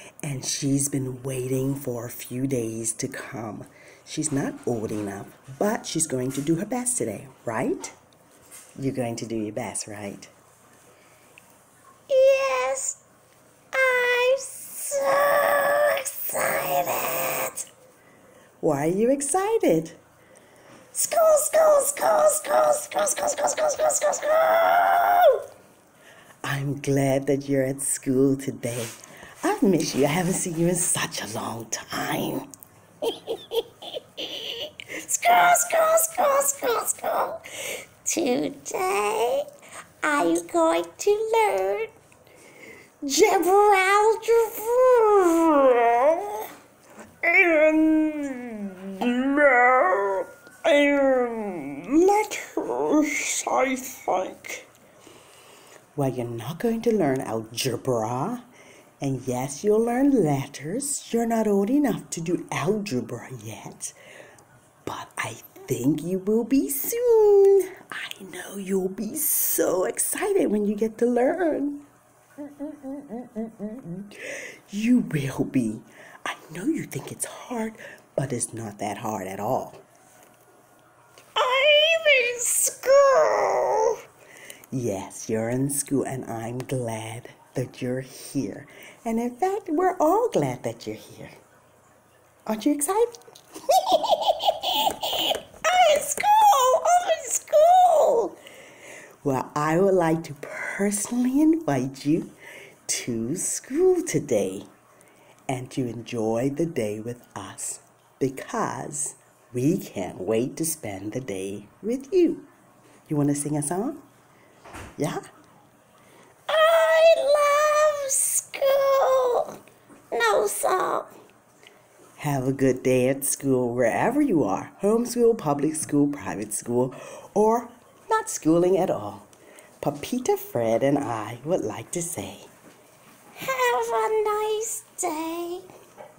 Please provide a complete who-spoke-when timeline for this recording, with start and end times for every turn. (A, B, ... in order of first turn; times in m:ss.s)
0:00.2-0:08.0 A
0:08.8-0:10.3 A
0:12.1-0:13.0 B
0:13.7-0:17.7 B
0:18.6-0:20.0 A
0:20.9-0:25.4 B
0:26.4-0:32.4 A
0:34.9-0:37.4 B
0:38.0-0:39.4 B
0:40.0-0:41.9 B
0:43.1-0:44.7 B
0:43.3-0:44.2 A
0:44.7-0:46.2 A
0:47.2-0:54.6 A
0:56.0-0:58.4 A
0:59.0-1:04.0 A
1:04.8-1:11.8 A
1:13.4-1:19.8 A
1:21.4-1:24.0 B
1:24.7-1:31.3 A
1:32.5-1:33.1 A
1:33.7-1:35.3 A
1:35.8-1:37.9 B
1:37.9-1:38.3 A
1:39.2-1:42.3 A
1:42.9-1:44.7 A
1:45.5-1:52.5 A
1:53.1-1:54.0 A
1:55.0-1:55.2 A
1:56.5-1:59.6 B
2:00.1-2:01.1 B
2:02.2-2:09.3 A
2:09.8-2:12.5 A
2:13.3-2:15.7 B